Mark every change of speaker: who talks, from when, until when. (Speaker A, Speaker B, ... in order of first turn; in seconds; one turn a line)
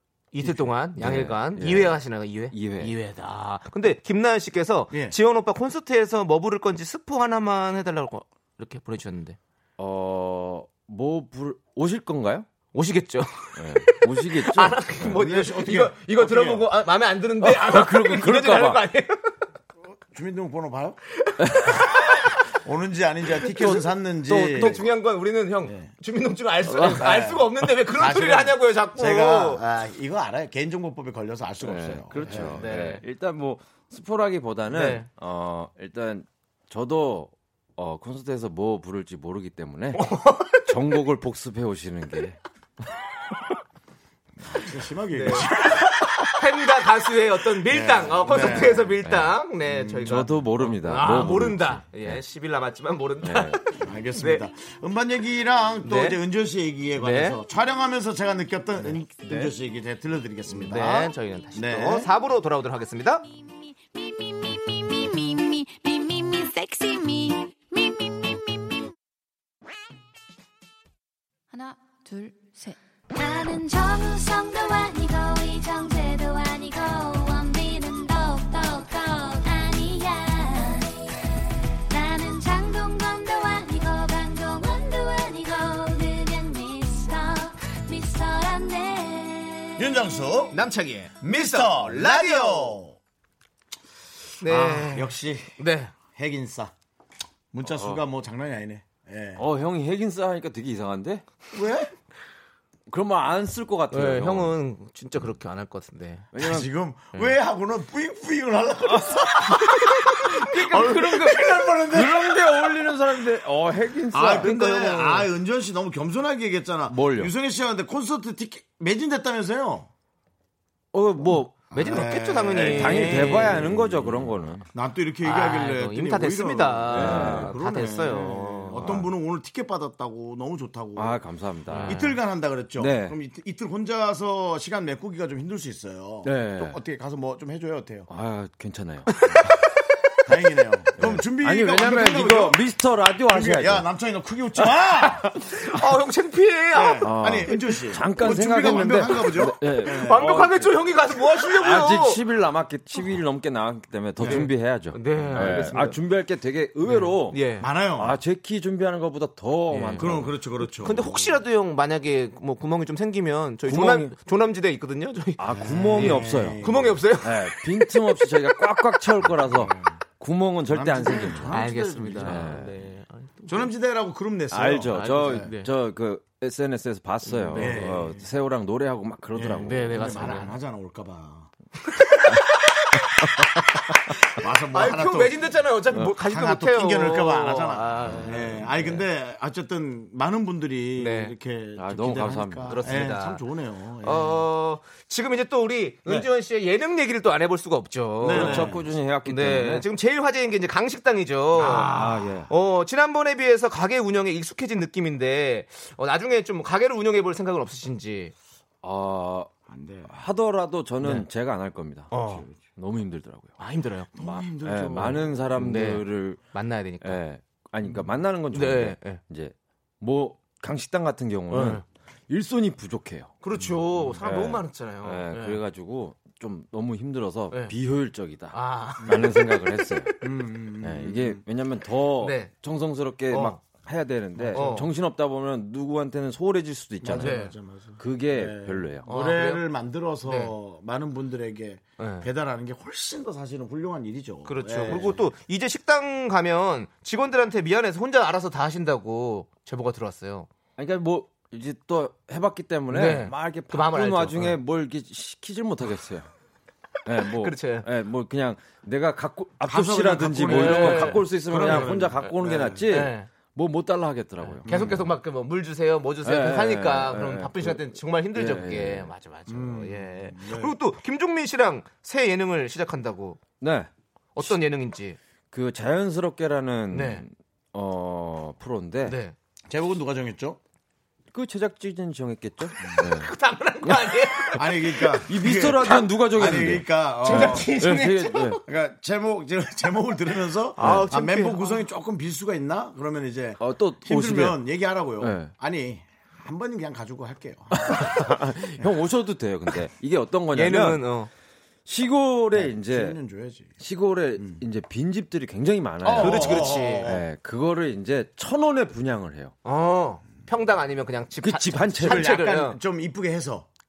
Speaker A: 0.3-9.4
Speaker B: 0.4-2.9
Speaker C: 4.9-5.2
Speaker B: 9.8-12.5
Speaker A: 12.7-19.3
Speaker B: 13.6-15.1
Speaker C: 15.1-16.7
Speaker B: 17.4-18.8
Speaker C: 20.1-21.0
Speaker A: 21.3-22.3
Speaker B: 21.4-21.8
Speaker C: 22.6-24.8
Speaker A: 23.5-23.8
Speaker B: 23.7-24.9
Speaker A: 24.3-29.6
Speaker C: 25.7-25.9
Speaker C: 26.7-32.6
Speaker B: 31.6-42.4
Speaker A: 32.1-33.0
Speaker A: 34.7-35.1
Speaker A: 39.9-40.7
Speaker C: 44.4-46.1
Speaker A: 45.1-45.5
Speaker A: 46.2-50.3
Speaker C: 47.6-49.0
Speaker B: 49.0-49.4
Speaker C: 49.7-51.4
Speaker B: 50.0-52.2
Speaker A: 50.8-54.5
Speaker B: 53.2-53.6
Speaker C: 53.8-62.1
Speaker A: 55.8-56.2
Speaker A: 57.0-57.4
Speaker A: 59.2-59.5
Speaker A: 60.5-63.2
Speaker D: 63.4-68.7
Speaker D: 73.1-81.0
Speaker D: 81.9-89.9
Speaker C: 89.8-90.6
Speaker A: 90.5-92.8
Speaker C: 91.2-93.0
Speaker A: 94.4-95.9
Speaker C: 94.5-95.6
Speaker C: 96.1-96.7
Speaker C: 97.5-99.5
Speaker B: 97.7-98.0
Speaker B: 99.4-101.2
Speaker C: 101.5-101.9
Speaker B: 102.9-104.6
Speaker A: 103.9-106.3
Speaker B: 106.3-106.7
Speaker C: 106.4-112.9
Speaker B: 108.9-115.3
Speaker C: 114.1-119.9
Speaker B: 116.9-117.3
Speaker B: 120.9-124.7
Speaker C: 121.7-131.2
Speaker A: 121.7-123.7
Speaker A: 125.2-129.0
Speaker B: 126.9-127.6
Speaker B: 128.8-129.1
Speaker B: 131.0-132.1
Speaker A: 131.7-132.2
Speaker C: 131.7-138.1
Speaker B: 132.8-133.2
Speaker B: 136.2-136.8
Speaker B: 138.1-139.5
Speaker A: 139.1-139.6
Speaker C: 140.3-142.6
Speaker B: 141.0-143.9
Speaker C: 143.3-145.2
Speaker A: 145.1-147.8
Speaker C: 146.7-150.4
Speaker B: 147.0-150.9
Speaker A: 149.9-152.2
Speaker B: 151.5-160.4
Speaker C: 154.2-154.5
Speaker A: 154.2-156.0
Speaker A: 156.8-157.7
Speaker C: 157.6-158.2
Speaker A: 159.7-160.2
Speaker C: 160.0-161.4
Speaker A: 160.8-168.2
Speaker B: 163.7-164.1
Speaker B: 165.4-172.7
Speaker C: 165.5-167.0
Speaker C: 169.3-170.0
Speaker C: 170.7-172.6
Speaker A: 171.5-173.7
Speaker C: 173.5-175.5
Speaker B: 174.5-180.3
Speaker A: 174.9-175.7
Speaker A: 177.2-178.0
Speaker C: 177.5-178.3
Speaker C: 179.3-181.5
Speaker A: 179.6-180.5
Speaker A: 181.9-183.5
Speaker C: 184.3-185.4
Speaker A: 184.7-188.7
Speaker C: 186.1-194.4
Speaker B: 188.1-189.0
Speaker A: 191.0-191.3
Speaker B: 191.8-193.1
Speaker A: 192.7-193.4
Speaker A: 194.0-202.0
Speaker C: 198.2-198.9
Speaker B: 198.3-199.9
Speaker C: 201.6-202.5
Speaker B: 201.9-202.5
Speaker A: 202.5-208.3
Speaker B: 208.8-209.5
Speaker C: 209.7-210.1
Speaker B: 210.1-213.6
Speaker A: 211.0-211.3
Speaker A: 212.1-212.5
Speaker A: 213.6-214.1
Speaker C: 214.2-215.4
Speaker B: 214.2-216.4
Speaker A: 215.6-217.2
Speaker B: 217.0-223.3
Speaker A: 218.5-219.2
Speaker A: 221.5-221.8
Speaker A: 223.4-225.6
Speaker B: 224.1-230.2
Speaker A: 228.5-230.0
Speaker C: 230.2-231.4
Speaker B: 230.8-239.1
Speaker A: 232.2-232.5
Speaker A: 233.3-233.6
Speaker C: 234.4-234.8
Speaker A: 234.5-234.9
Speaker C: 237.0-245.2
Speaker A: 237.2-237.5
Speaker A: 239.1-239.6
Speaker A: 240.2-240.5
Speaker A: 242.0-242.3
Speaker A: 244.5-250.5
Speaker B: 250.8-256.3
Speaker A: 252.9-254.6
Speaker B: 257.1-265.1
Speaker A: 257.2-257.9
Speaker C: 259.6-262.9
Speaker A: 260.5-262.3
Speaker A: 262.9-263.3
Speaker A: 264.4-273.4
Speaker C: 264.6-265.0
Speaker B: 266.2-269.1
Speaker C: 269.5-270.8
Speaker B: 273.6-274.6
Speaker A: 274.4-275.2
Speaker B: 275.5-279.2
Speaker A: 276.9-277.3
Speaker A: 279.1-279.4
Speaker C: 279.7-280.6
Speaker B: 281.3-283.3
Speaker A: 282.9-285.2
Speaker B: 283.9-284.6
Speaker C: 284.6-287.7
Speaker B: 285.3-288.6
Speaker A: 287.2-288.6
Speaker C: 288.7-298.3
Speaker A: 290.8-291.8
Speaker B: 290.8-291.1
Speaker B: 293.6-294.6
Speaker B: 295.2-295.5
Speaker B: 297.7-301.1
Speaker A: 300.5-301.3
Speaker B: 301.9-303.2
Speaker C: 302.5-303.8
Speaker B: 303.8-309.5
Speaker C: 304.4-304.6
Speaker C: 306.0-307.2
Speaker A: 306.2-307.1
Speaker A: 309.6-312.8
Speaker B: 311.4-312.4
Speaker C: 312.0-313.7